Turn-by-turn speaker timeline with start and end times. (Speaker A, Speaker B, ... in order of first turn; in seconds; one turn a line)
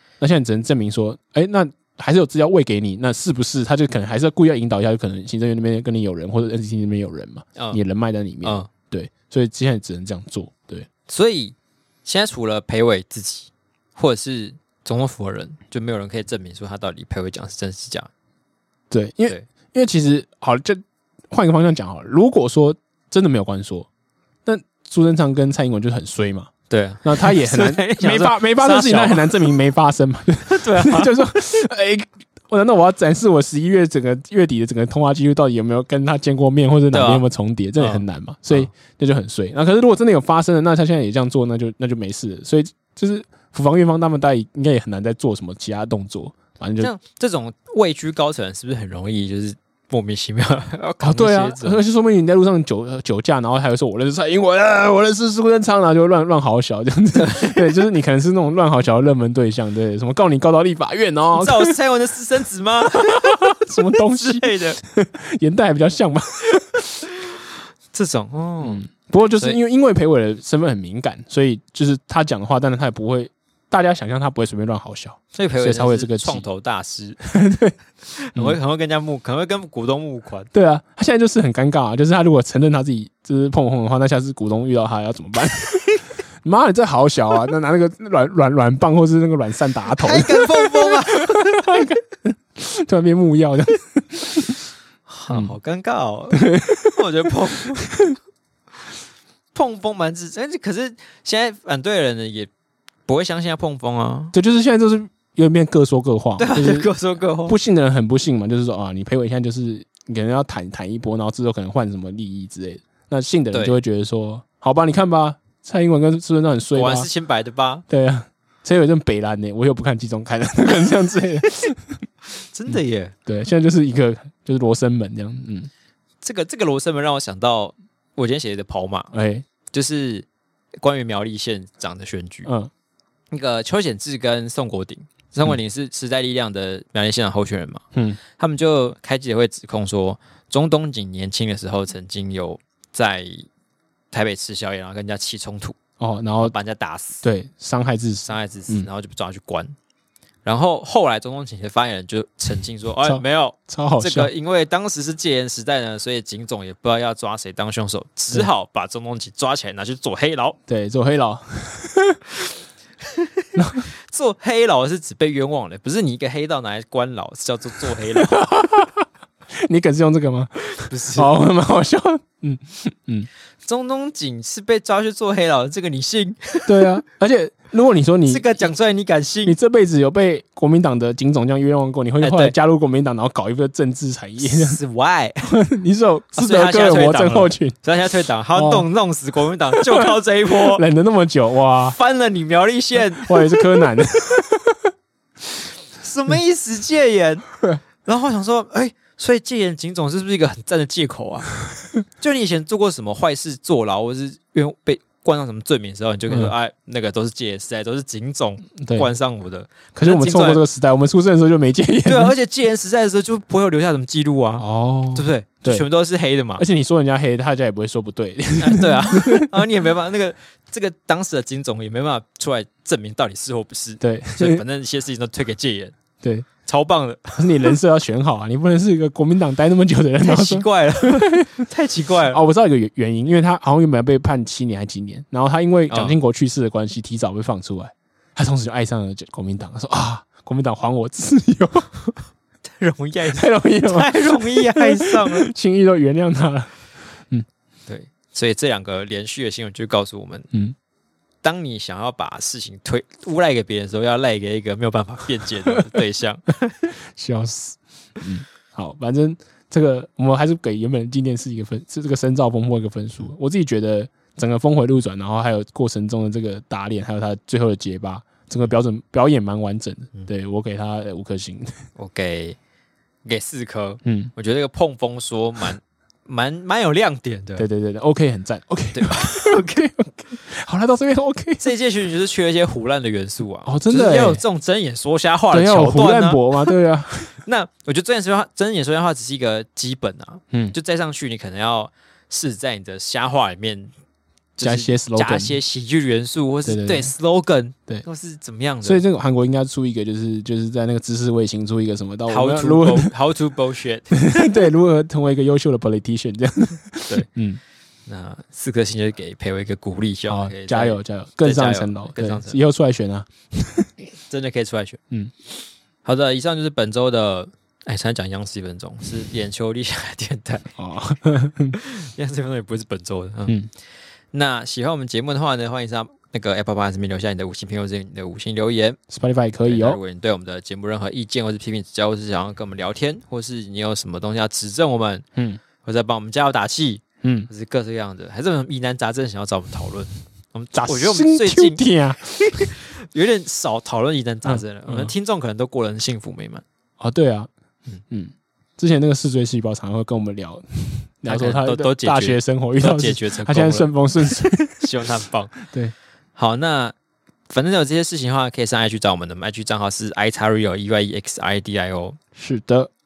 Speaker A: 0.2-10.9
Speaker B: 8.4-8.7
Speaker B: 11.1-18.1
Speaker A: 18.9-23.9
Speaker A: 24.4-26.5
Speaker B: 26.7-29.6
Speaker A: 27.0-46.9
Speaker B: 30.5-31.1
Speaker B: 36.9-37.3
Speaker B: 37.8-38.7
Speaker B: 46.8-51.8
Speaker A: 51.0-61.7
Speaker B: 57.1-57.8
Speaker B: 61.3-64.8
Speaker A: 62.9-66.8
Speaker B: 67.9-68.8
Speaker A: 68.6-76.5
Speaker B: 75.3-77.2
Speaker A: 77.3-77.8
Speaker B: 78.1-80.5
Speaker A: 80.5-94.6
Speaker B: 90.0-91.8
Speaker B: 95.1-97.9
Speaker A: 95.3-95.5
Speaker A: 96.3-98.1
Speaker B: 99.5-102.5
Speaker B: 103.1-104.3
Speaker A: 104.3-106.9
Speaker B: 106.4-107.5
Speaker A: 107.5-117.1
Speaker B: 116.7-117.8
Speaker A: 117.9-122.0
Speaker B: 122.5-123.1
Speaker A: 122.7-125.7
Speaker B: 126.2-129.1
Speaker A: 129.1-129.5
Speaker B: 129.7-130.3
Speaker B: 130.8-132.5
Speaker A: 132.4-132.7
Speaker B: 133.3-143.5
Speaker A: 137.9-138.2
Speaker B: 144.1-145.8
Speaker A: 146.0-146.5
Speaker B: 146.4-147.2
Speaker A: 147.2-148.9
Speaker B: 148.2-149.7
Speaker B: 150.4-160.6
Speaker A: 153.0-154.3
Speaker A: 160.7-162.2
Speaker B: 163.0-163.5
Speaker A: 163.6-163.9
Speaker B: 164.1-168.3
Speaker A: 168.2-169.1
Speaker A: 169.6-173.3
Speaker B: 170.8-171.3
Speaker B: 173.6-176.9
Speaker A: 176.7-178.6
Speaker B: 178.2-179.6
Speaker A: 179.4-184.8
Speaker B: 182.2-182.5
Speaker B: 184.4-185.5
Speaker A: 185.4-187.8
Speaker B: 186.3-190.8
Speaker A: 188.5-188.9
Speaker A: 189.7-192.0
Speaker B: 191.8-193.9
Speaker A: 193.2-194.9
Speaker B: 196.0-197.5
Speaker B: 198.0-201.5
Speaker B: 202.2-210.6
Speaker A: 208.8-209.1
Speaker A: 209.9-212.3
Speaker B: 212.1-216.6
Speaker A: 214.6-215.8
Speaker A: 216.6-219.5
Speaker B: 218.6-225.9
Speaker A: 224.0-224.6
Speaker A: 226.2-226.5
Speaker B: 226.6-227.8
Speaker A: 227.3-231.5
Speaker B: 230.2-232.4
Speaker A: 232.3-242.2
Speaker B: 235.9-236.2
Speaker B: 242.7-245.5
Speaker A: 243.3-246.7
Speaker B: 247.9-250.5
Speaker B: 251.4-256.9
Speaker A: 255.7-256.0
Speaker A: 257.1-271.7
Speaker B: 271.9-272.6
Speaker B: 273.2-277.6
Speaker A: 274.0-274.3
Speaker A: 277.6-281.7
Speaker B: 278.9-279.9
Speaker B: 281.6-286.7
Speaker A: 283.6-284.4
Speaker A: 285.5-287.4
Speaker B: 287.4-293.9
Speaker B: 294.6-299.0
Speaker A: 294.6-295.6
Speaker A: 296.6-297.1
Speaker A: 298.8-303.1
Speaker B: 302.3-304.4
Speaker A: 304.1-307.6
Speaker B: 308.1-312.6
Speaker A: 310.3-313.9
Speaker B: 314.3-315.0
Speaker B: 316.0-320.7
Speaker A: 320.8-321.8
Speaker B: 321.8-323.5
Speaker B: 324.3-329.0
Speaker A: 329.1-330.0
Speaker B: 329.6-335.2
Speaker A: 335.4-335.6
Speaker B: 335.8-341.8
Speaker A: 337.2-337.5
Speaker A: 340.7-342.7
Speaker B: 342.4-346.6
Speaker A: 344.4-345.1
Speaker A: 347.0-347.5
Speaker A: 348.1-354.9
Speaker B: 351.2-355.6
Speaker A: 355.6-355.9
Speaker B: 356.4-356.9
Speaker B: 357.5-362.2
Speaker A: 362.4-362.9